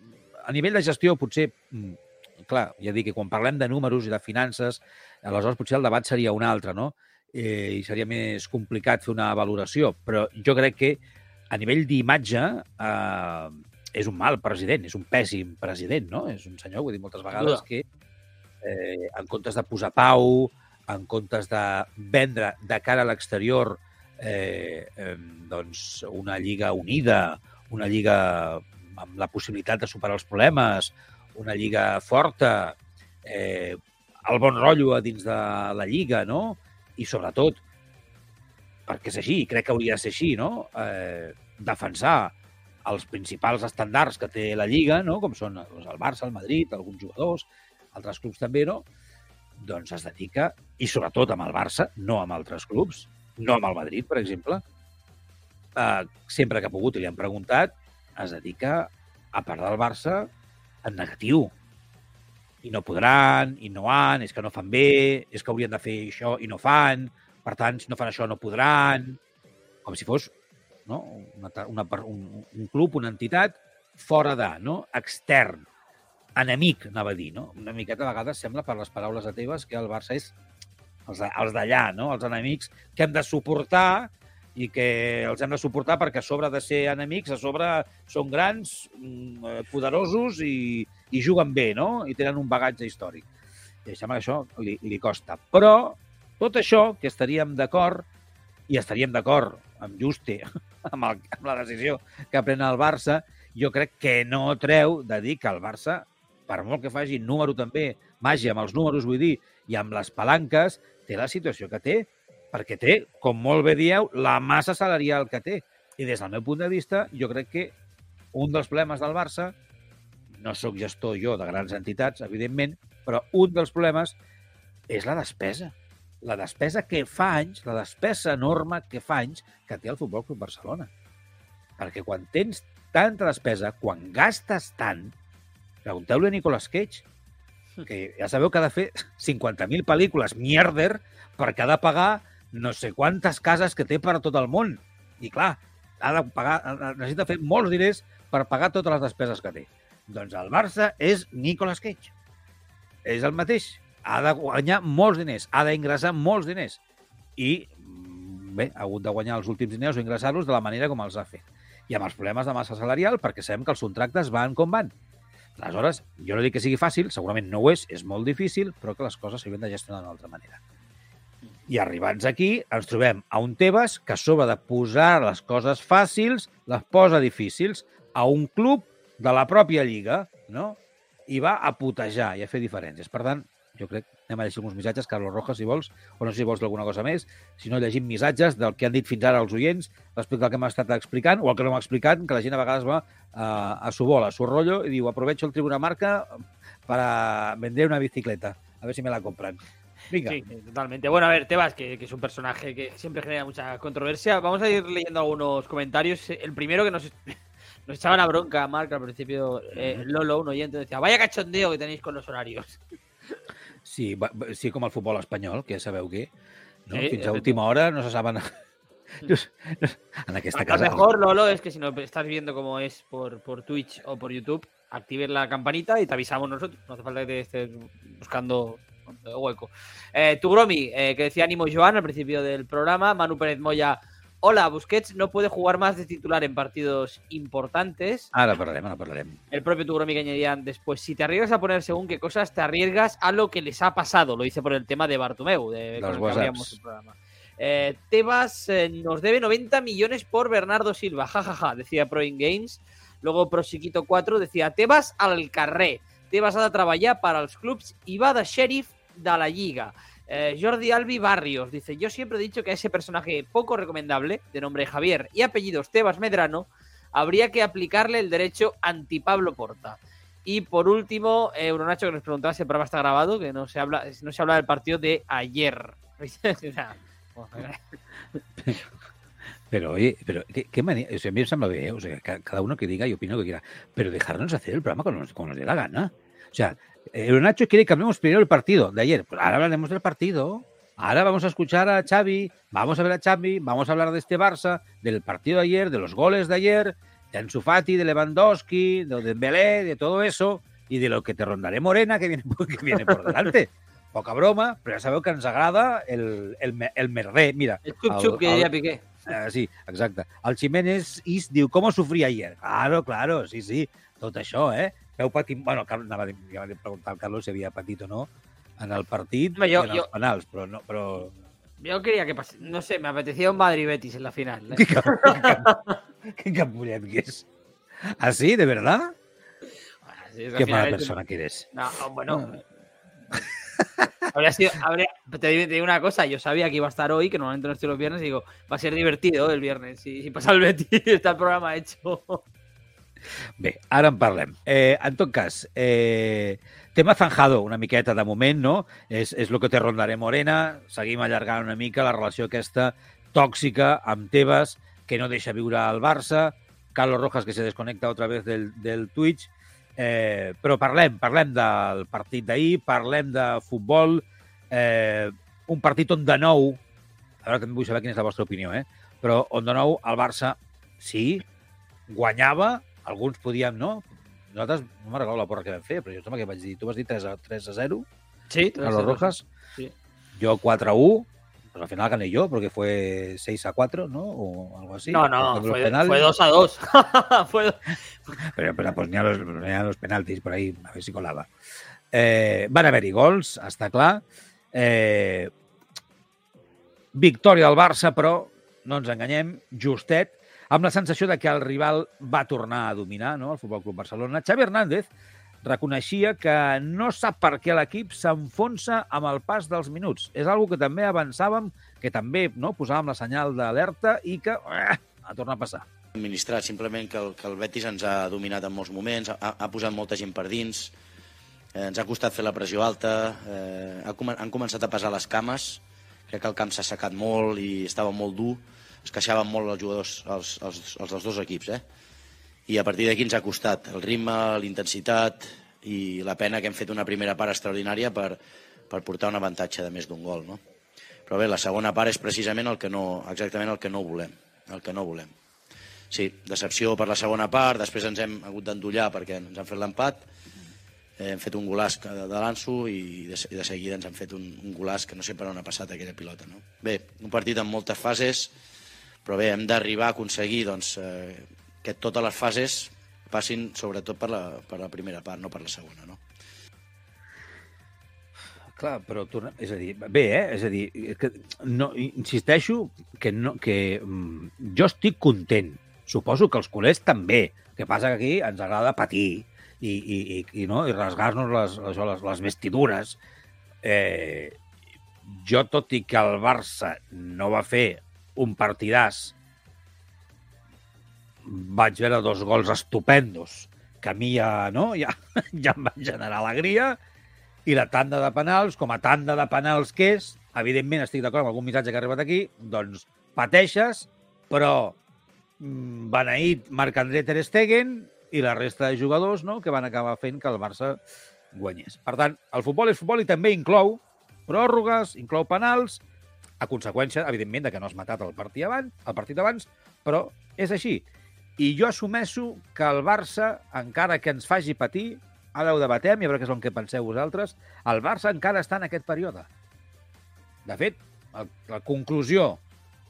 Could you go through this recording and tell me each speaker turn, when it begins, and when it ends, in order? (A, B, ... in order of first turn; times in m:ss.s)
0:00.4-0:17.8 A
0:17.3-0:17.6 B
0:18.6-0:37.6 A
0:38.9-0:48.8 A
0:49.6-0:54.6 A
0:55.8-1:00.3 A
1:00.8-1:01.5 A
1:02.6-1:09.2 A
1:09.8-1:10.3 A
1:10.9-1:15.7 A
1:16.4-1:20.3 A
1:21.1-1:33.3 A
1:33.9-1:38.1 A
1:38.7-1:57.8 A
1:58.3-1:59.6 A
2:00.3-2:04.2 A
2:04.9-2:10.9 A
2:11.8-2:15.2 A
2:15.8-2:17.0 A
2:17.8-2:32.1 A
2:33.0-2:36.8 A
2:37.4-2:44.9 A
2:45.6-2:50.6 A
2:51.7-3:20.4 A
3:20.2-3:32.8 B
3:29.7-3:30.0 A
3:33.8-3:36.3 A
3:36.9-3:38.5 A
3:36.9-3:37.6 B
3:39.2-3:41.0 A
3:40.5-3:58.3 B
3:58.3-3:59.4 A
3:59.5-4:37.9 B
4:06.0-4:06.8 A
4:39.7-5:08.7 A
5:03.0-5:03.4 B
5:07.8-5:09.1 B
5:09.3-5:21.3 A
5:19.6-5:20.1 B
5:21.8-5:26.0 B
5:24.7-5:25.7 A
5:26.2-5:27.5 A
5:28.0-5:29.2 A
5:30.1-5:31.2 B
5:30.6-5:31.7 A
5:31.7-5:32.5 B
5:32.3-5:32.6 A
5:33.8-5:34.1 A
5:34.3-5:42.4 B
5:43.6-6:06.8 A
6:07.4-6:11.4 A
6:12.1-6:18.1 A
6:18.5-6:19.9 B
6:18.8-6:19.4 A
6:20.4-6:26.3 A
6:25.1-6:28.4 B
6:28.4-6:31.5 A
6:32.1-6:35.5 A
6:37.1-6:45.1 A
6:45.6-6:55.8 A
6:56.2-7:01.0 C
7:01.7-7:11.8 C
7:12.7-7:18.4 C
7:18.9-7:20.6 C
7:21.3-7:25.3 C
7:26.1-7:30.3 C
7:31.2-7:38.5 C
7:39.2-7:46.2 C
7:48.7-8:03.2 A
8:03.8-8:04.6 A
8:05.2-8:09.3 A
8:11.4-8:17.0 A
8:17.7-8:25.0 A
8:25.6-8:31.0 A
8:31.5-8:36.0 A
8:36.6-8:41.0 A
8:41.6-8:49.5 A
8:50.6-8:52.6 A